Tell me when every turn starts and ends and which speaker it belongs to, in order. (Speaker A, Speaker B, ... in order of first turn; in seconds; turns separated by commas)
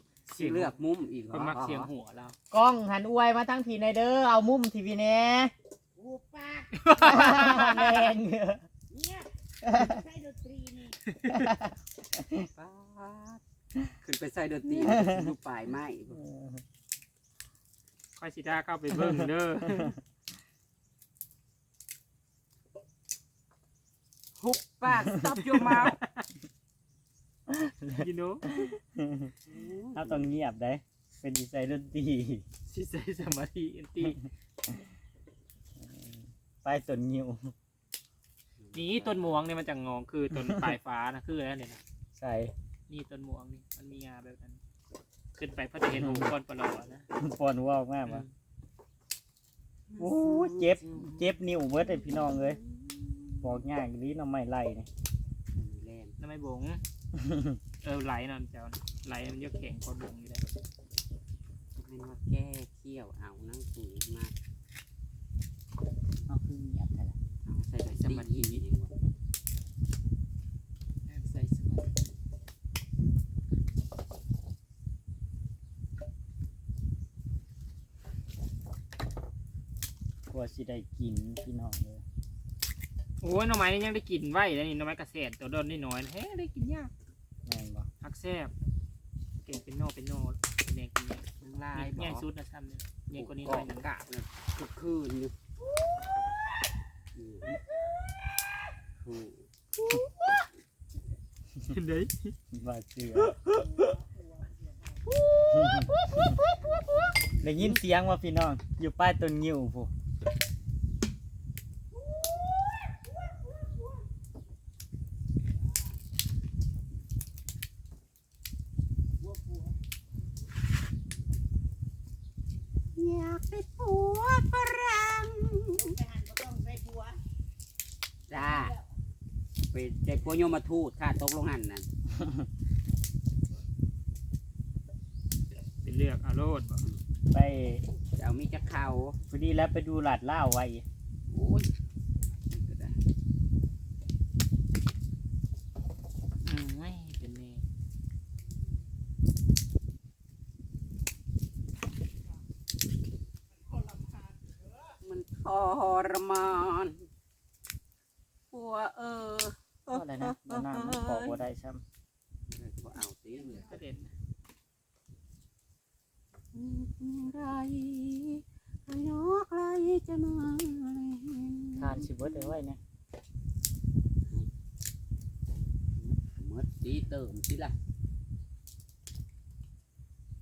Speaker A: 0.3-1.9, Speaker B: 0.4-0.7, Speaker B: 1.3-2.4, Speaker C: 2.5-5.5, Speaker D: 6.0-7.7, Speaker B: 6.8-8.0, Speaker C: 7.0-8.6, Speaker D: 8.9-11.0, Speaker C: 9.6-10.0, Speaker B: 11.1-11.5, Speaker C: 11.3-12.5, Speaker A: 12.5-13.4, Speaker A: 14.0-16.2, Speaker C: 14.8-15.3, Speaker C: 16.1-16.6, Speaker B: 18.2-20.0, Speaker A: 24.4-26.0, Speaker B: 25.6-26.2, Speaker C: 27.5-29.3, Speaker B: 28.0-28.4, Speaker A: 29.5-30.3, Speaker C: 29.9-32.4, Speaker B: 32.7-34.2, Speaker C: 35.8-37.5, Speaker A: 38.6-39.4, Speaker B: 38.7-41.8, Speaker C: 40.4-40.7, Speaker C: 42.2-42.5, Speaker B: 42.9-44.6, Speaker B: 45.3-47.0, Speaker C: 45.9-46.3, Speaker C: 47.2-48.2, Speaker B: 48.0-48.3, Speaker A: 49.9-51.2, Speaker C: 50.0-52.6, Speaker A: 52.0-53.6, Speaker C: 53.4-54.9, Speaker A: 55.5-56.1, Speaker B: 56.2-56.8, Speaker C: 57.1-57.6, Speaker B: 57.8-60.5, Speaker A: 61.8-64.3, Speaker C: 66.3-67.2, Speaker A: 67.5-68.9, Speaker B: 67.9-68.6, Speaker B: 71.1-72.0, Speaker C: 80.3-82.0, Speaker B: 83.2-86.9, Speaker C: 87.5-87.9, Speaker B: 88.0-88.5, Speaker B: 89.5-93.9, Speaker A: 91.4-92.2, Speaker A: 93.1-95.3, Speaker A: 97.2-97.6, Speaker A: 99.0-99.5, Speaker B: 101.7-102.3, Speaker C: 102.5-103.9, Speaker D: 103.8-104.0, Speaker C: 105.5-106.4, Speaker C: 107.4-109.9, Speaker D: 112.0-113.0, Speaker D: 119.2-119.7, Speaker A: 123.0-125.9, Speaker D: 125.8-127.2, Speaker A: 128.3-128.8, Speaker D: 128.3-128.8, Speaker A: 129.7-131.9, Speaker C: 132.1-132.5, Speaker B: 135.8-136.8, Speaker C: 137.3-137.8, Speaker A: 138.2-139.2, Speaker C: 139.3-140.8, Speaker A: 141.3-141.7, Speaker A: 142.5-143.0, Speaker B: 146.4-147.6, Speaker A: 155.0-157.1, Speaker A: 158.5-161.4, Speaker C: 159.9-161.8, Speaker A: 162.5-163.8, Speaker B: 163.5-164.1, Speaker A: 166.5-172.5, Speaker C: 171.8-172.8, Speaker A: 176.0-177.8